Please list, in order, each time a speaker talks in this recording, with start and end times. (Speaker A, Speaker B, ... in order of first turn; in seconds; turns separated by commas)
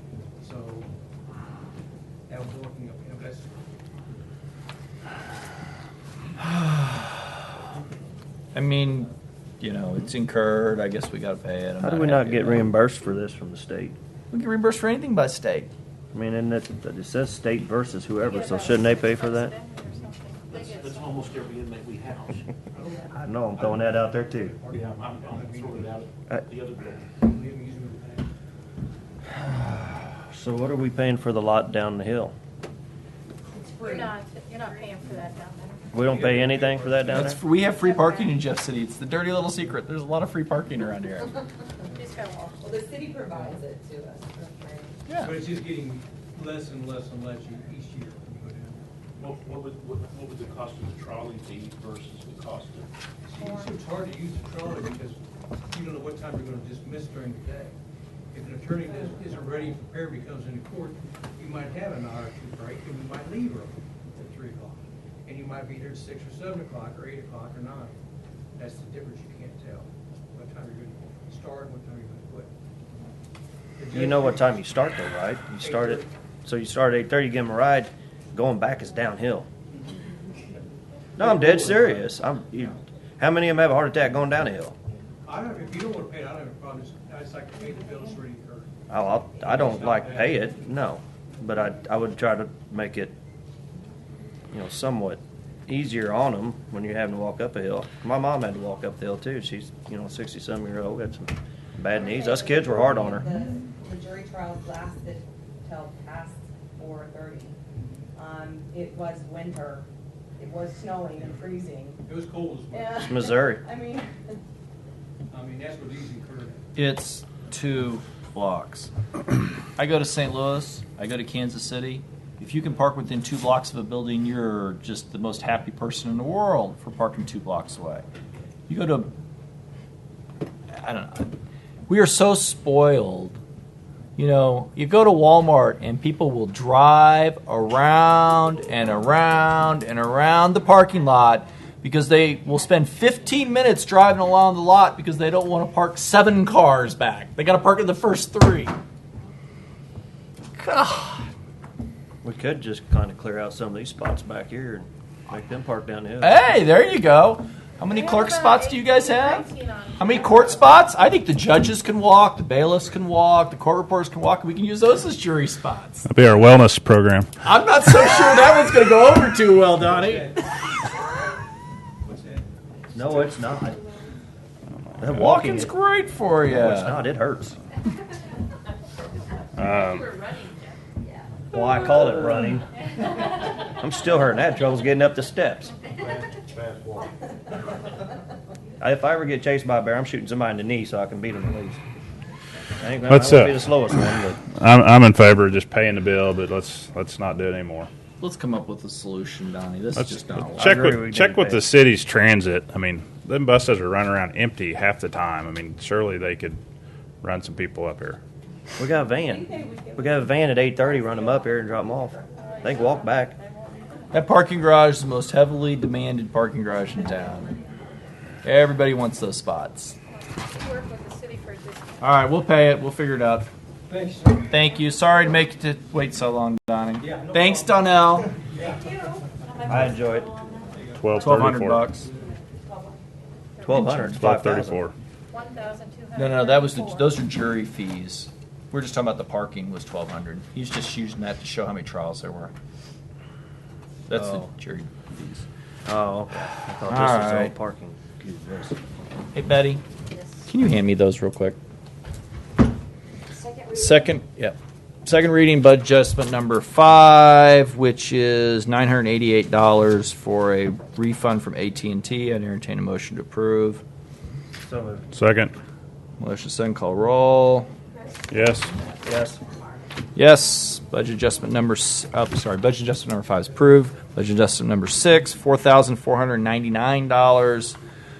Speaker A: 0.4-0.9, Speaker A: 2.3-3.6, Speaker B: 8.5-12.7, Speaker C: 11.8-14.0, Speaker B: 14.3-15.7, Speaker C: 16.1-19.5, Speaker D: 18.2-21.4, Speaker E: 20.5-22.5, Speaker A: 22.7-26.0, Speaker C: 23.1-24.6, Speaker E: 24.7-27.1, Speaker A: 27.2-28.3, Speaker C: 29.3-32.3, Speaker F: 33.5-34.1, Speaker D: 33.8-35.9, Speaker C: 35.9-37.4, Speaker A: 35.9-37.3, Speaker B: 37.1-41.3, Speaker D: 41.9-42.6, Speaker F: 42.6-45.0, Speaker B: 45.1-45.4, Speaker A: 45.2-48.9, Speaker E: 49.2-52.9, Speaker A: 53.2-55.2, Speaker D: 53.4-53.7, Speaker A: 55.7-57.8, Speaker A: 58.3-68.0, Speaker A: 68.6-72.5, Speaker A: 73.8-74.6, Speaker C: 73.9-79.5, Speaker A: 75.6-76.1, Speaker A: 81.2-82.1, Speaker C: 81.2-84.8, Speaker A: 85.2-88.8, Speaker C: 88.9-93.2, Speaker A: 89.4-90.6, Speaker C: 94.5-103.3, Speaker F: 101.9-107.6, Speaker F: 108.2-109.9, Speaker F: 110.4-112.0, Speaker A: 112.0-113.0, Speaker F: 112.7-114.4, Speaker C: 113.0-113.7, Speaker A: 115.3-116.6, Speaker B: 116.8-118.9, Speaker B: 119.8-128.1, Speaker B: 128.7-129.1, Speaker B: 130.7-131.3, Speaker B: 131.9-133.4, Speaker B: 134.2-148.8, Speaker B: 150.6-151.3, Speaker C: 152.2-156.4, Speaker B: 156.2-166.1, Speaker D: 157.9-160.8, Speaker G: 166.1-167.3, Speaker B: 167.4-170.7, Speaker A: 169.7-170.7, Speaker A: 172.0-173.2, Speaker C: 172.9-173.8, Speaker C: 175.0-175.8, Speaker B: 175.1-177.0, Speaker C: 176.4-177.6, Speaker G: 179.6-180.2, Speaker D: 179.6-180.8, Speaker C: 181.5-182.7, Speaker C: 183.7-185.7, Speaker E: 186.0-187.1, Speaker C: 188.8-191.8, Speaker C: 192.8-194.4, Speaker G: 193.1-193.6, Speaker G: 194.1-197.9, Speaker B: 198.2-200.9, Speaker G: 200.0-206.6, Speaker C: 200.6-201.7, Speaker G: 207.2-208.2, Speaker C: 208.8-213.3, Speaker F: 209.2-213.3, Speaker D: 212.4-213.5, Speaker B: 214.1-217.5, Speaker B: 218.4-220.0, Speaker D: 220.3-222.2, Speaker B: 222.0-223.5, Speaker A: 223.9-224.5, Speaker B: 224.5-228.3, Speaker A: 227.0-228.9, Speaker F: 228.6-230.9, Speaker C: 229.7-230.3, Speaker A: 230.7-231.0, Speaker G: 230.9-231.9, Speaker B: 231.2-232.1, Speaker F: 232.4-233.1, Speaker D: 233.6-233.9, Speaker C: 233.6-234.8, Speaker B: 233.7-234.2, Speaker G: 233.9-234.9, Speaker D: 235.3-237.2, Speaker B: 236.2-242.5, Speaker B: 244.1-245.5, Speaker C: 244.1-244.5, Speaker C: 245.9-248.8, Speaker B: 246.3-247.5, Speaker B: 249.3-249.8, Speaker B: 250.5-251.6, Speaker D: 253.7-254.1, Speaker B: 253.7-263.8, Speaker C: 264.6-265.1, Speaker G: 265.1-265.5, Speaker B: 266.2-267.7, Speaker G: 268.3-268.7, Speaker C: 269.0-269.4, Speaker B: 270.2-277.8